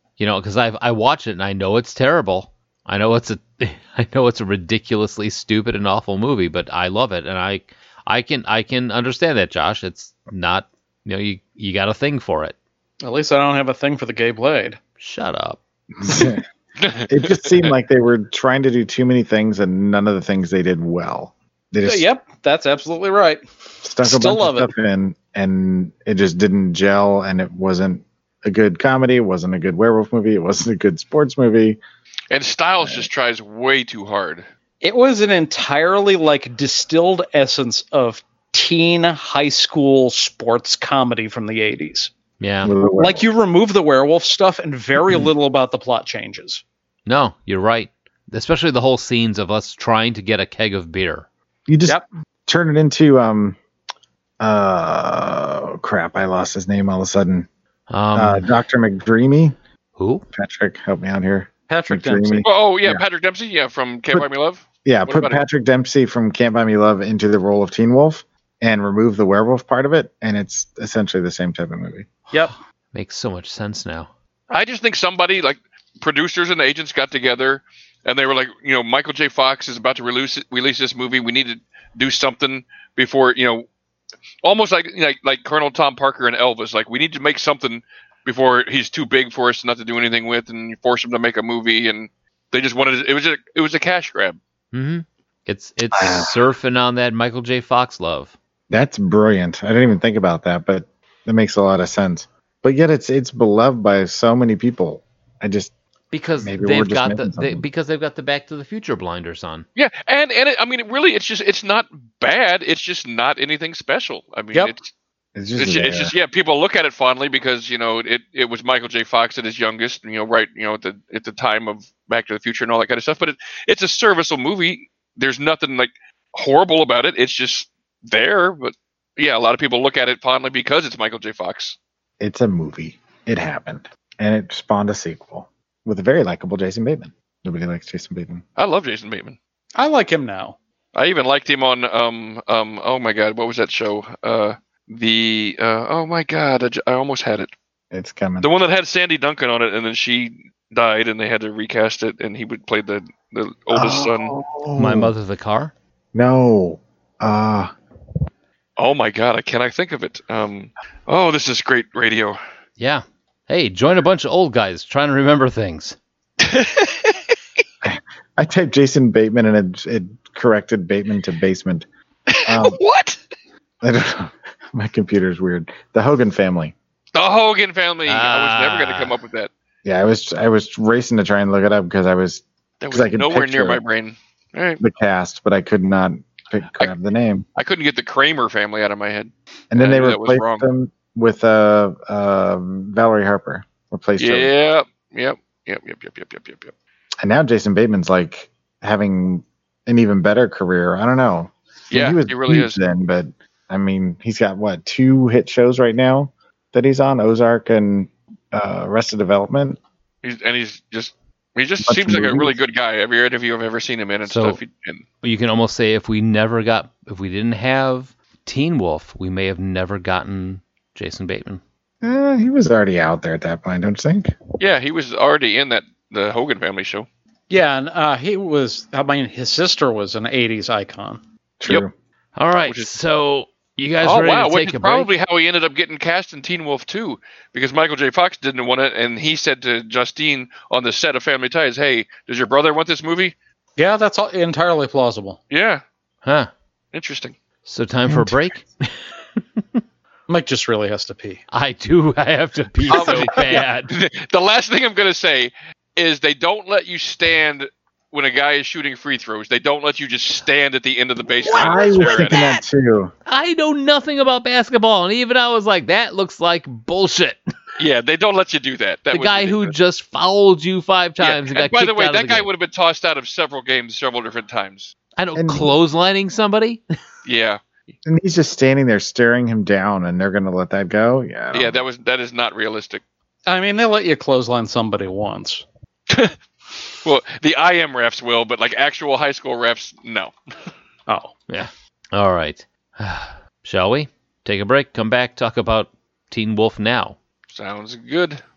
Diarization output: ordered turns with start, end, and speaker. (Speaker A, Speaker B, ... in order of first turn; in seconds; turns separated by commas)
Speaker A: 0.2-12.6, Speaker B: 13.0-14.8, Speaker A: 15.0-15.6, Speaker C: 16.0-16.4, Speaker D: 16.8-17.7, Speaker C: 17.1-22.1, Speaker B: 21.8-23.4, Speaker C: 23.8-31.8, Speaker B: 24.0-24.7, Speaker D: 32.3-34.5, Speaker B: 34.8-42.1, Speaker A: 42.4-42.7, Speaker C: 42.6-43.3, Speaker B: 43.0-46.6, Speaker A: 47.1-51.3, Speaker C: 51.7-53.6, Speaker C: 54.4-57.5, Speaker A: 57.9-58.5, Speaker C: 58.1-59.6, Speaker A: 60.0-60.2, Speaker C: 60.3-63.0, Speaker B: 61.7-62.5, Speaker D: 62.4-65.4, Speaker C: 64.8-72.1, Speaker A: 72.9-74.1, Speaker D: 74.5-83.7, Speaker D: 84.4-94.4, Speaker A: 94.7-98.3, Speaker C: 95.9-96.4, Speaker C: 98.7-105.7, Speaker A: 106.1-109.7, Speaker C: 106.4-107.7, Speaker D: 109.8-114.9, Speaker C: 115.4-116.1, Speaker D: 115.6-131.8, Speaker C: 132.2-138.4, Speaker D: 138.6-139.4, Speaker B: 139.8-140.6, Speaker D: 140.9-147.5, Speaker C: 147.9-148.5, Speaker D: 148.4-154.3, Speaker C: 153.7-155.1, Speaker A: 154.8-155.7, Speaker C: 156.1-157.7, Speaker D: 158.8-162.4, Speaker A: 162.8-166.0, Speaker D: 166.4-167.2, Speaker C: 167.8-171.9, Speaker D: 172.3-173.2, Speaker C: 172.4-172.8, Speaker C: 173.8-176.8, Speaker D: 177.2-179.5, Speaker A: 178.1-179.2, Speaker C: 179.8-183.8, Speaker D: 182.8-184.8, Speaker C: 184.8-187.4, Speaker D: 187.6-190.7, Speaker C: 189.7-194.5, Speaker D: 194.2-196.7, Speaker C: 197.2-209.8, Speaker D: 201.9-202.8, Speaker D: 210.2-215.1, Speaker C: 211.8-212.6, Speaker A: 214.2-214.6, Speaker A: 215.2-221.6, Speaker C: 222.0-224.4, Speaker D: 224.6-227.1, Speaker B: 227.5-231.2, Speaker C: 231.6-231.9, Speaker A: 232.4-235.1, Speaker D: 234.0-243.3, Speaker B: 243.8-245.4, Speaker D: 245.5-245.8, Speaker A: 246.2-246.5, Speaker D: 246.9-247.4, Speaker A: 247.7-249.0, Speaker C: 248.1-248.4, Speaker B: 250.3-251.4, Speaker A: 251.5-253.9, Speaker B: 252.9-253.5, Speaker D: 252.9-262.6, Speaker C: 261.4-263.1, Speaker A: 263.3-267.4, Speaker D: 267.8-269.8, Speaker A: 269.1-272.5, Speaker D: 271.2-274.9, Speaker A: 275.2-276.8, Speaker C: 275.4-275.7, Speaker D: 277.2-277.6, Speaker C: 278.1-281.8, Speaker D: 281.5-283.0, Speaker B: 283.5-285.6, Speaker D: 286.1-286.4, Speaker D: 287.0-290.3, Speaker B: 291.1-291.3, Speaker A: 291.5-297.2, Speaker D: 297.5-298.4